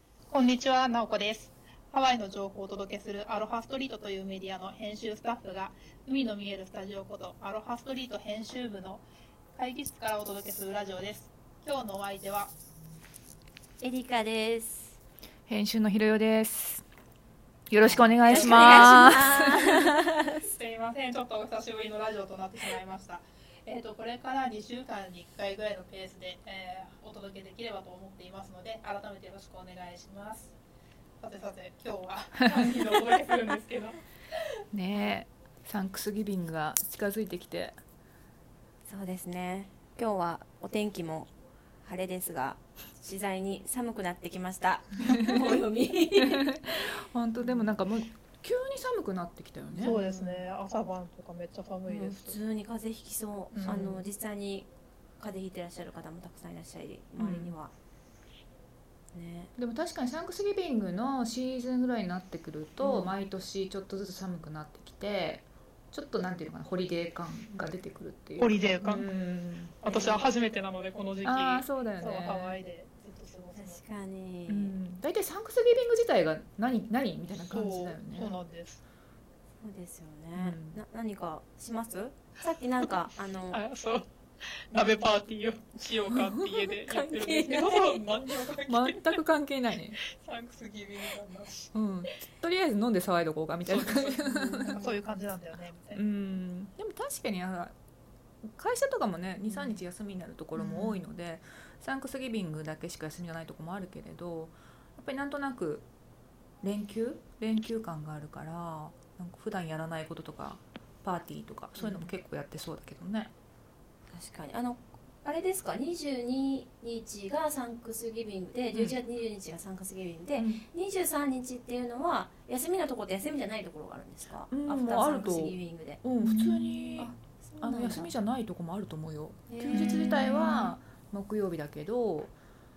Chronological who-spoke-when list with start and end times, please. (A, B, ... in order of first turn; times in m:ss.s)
0:00.3-0:09.0 A
0:09.6-0:12.5 A
0:13.8-0:15.0 B
0:15.5-0:16.8 C
0:17.7-0:19.9 C
0:17.8-0:20.4 B
0:18.2-0:19.6 A
0:20.4-0:30.6 A
0:31.2-0:34.0 A
0:34.7-0:37.8 C
0:38.8-0:41.3 B
0:41.8-0:46.7 B
0:45.0-0:45.6 C
0:46.2-0:50.0 C
0:49.7-0:50.5 B
0:49.8-0:52.4 A
0:51.9-0:57.7 B
0:53.5-0:54.0 A
0:53.7-0:54.0 C
0:57.2-0:57.6 C
0:59.1-0:59.5 B
0:59.6-1:09.7 C
1:02.8-1:03.1 B
1:08.4-1:13.8 A
1:09.8-1:10.2 B
1:11.2-1:12.6 C
1:13.5-1:14.8 B
1:14.5-1:18.3 C
1:17.5-1:18.8 A
1:19.6-1:23.6 B
1:20.4-1:20.8 C
1:23.5-1:24.1 A
1:24.7-1:29.2 A
1:26.1-1:26.5 C
1:26.8-1:28.0 B
1:28.7-1:30.0 C
1:30.0-1:31.7 A
1:31.7-1:34.8 C
1:33.6-1:36.0 A
1:34.2-1:35.0 B
1:35.9-1:37.7 C
1:38.5-1:45.9 C
1:39.5-1:39.8 B
1:40.6-1:41.0 A
1:46.6-1:53.3 C
1:51.8-1:52.1 B
1:54.1-2:06.0 B
2:00.4-2:00.6 C
2:04.5-2:12.3 C
2:06.2-2:06.9 A
2:07.0-2:08.1 B
2:09.5-2:10.3 B
2:09.7-2:10.7 A